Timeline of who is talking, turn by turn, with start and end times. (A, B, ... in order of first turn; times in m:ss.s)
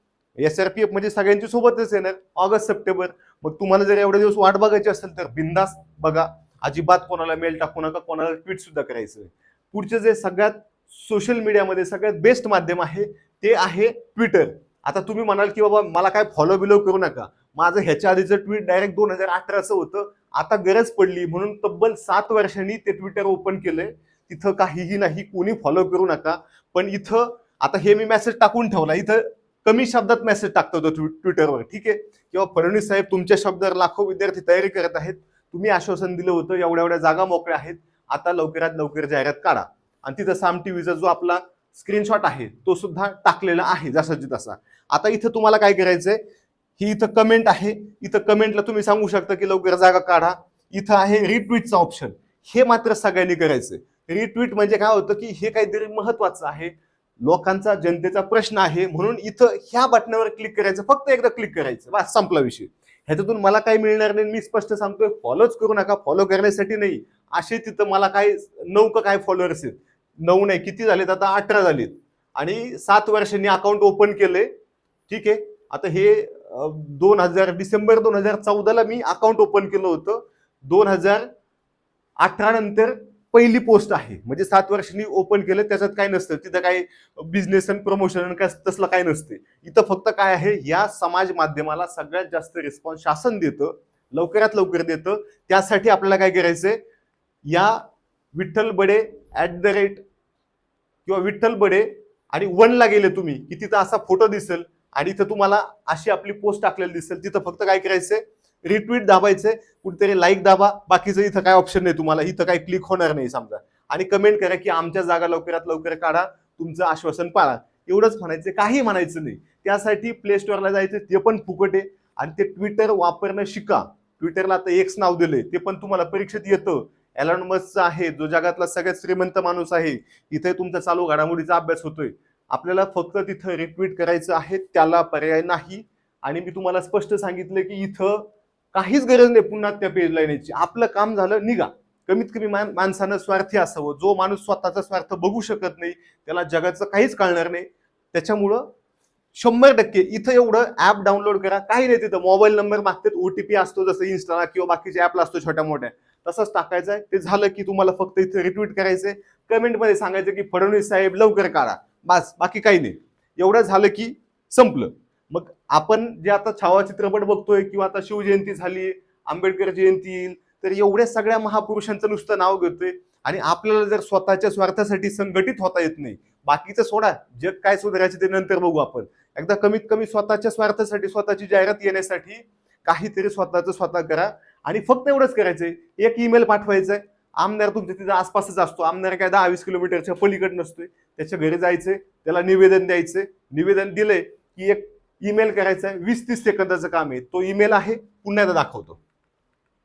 0:00.4-0:46.2 A
0:46.8-1:14.5 A
1:15.1-1:21.3 A
1:22.2-1:36.8 A
1:37.4-1:40.0 A
1:41.0-2:28.7 A
2:29.3-3:19.0 A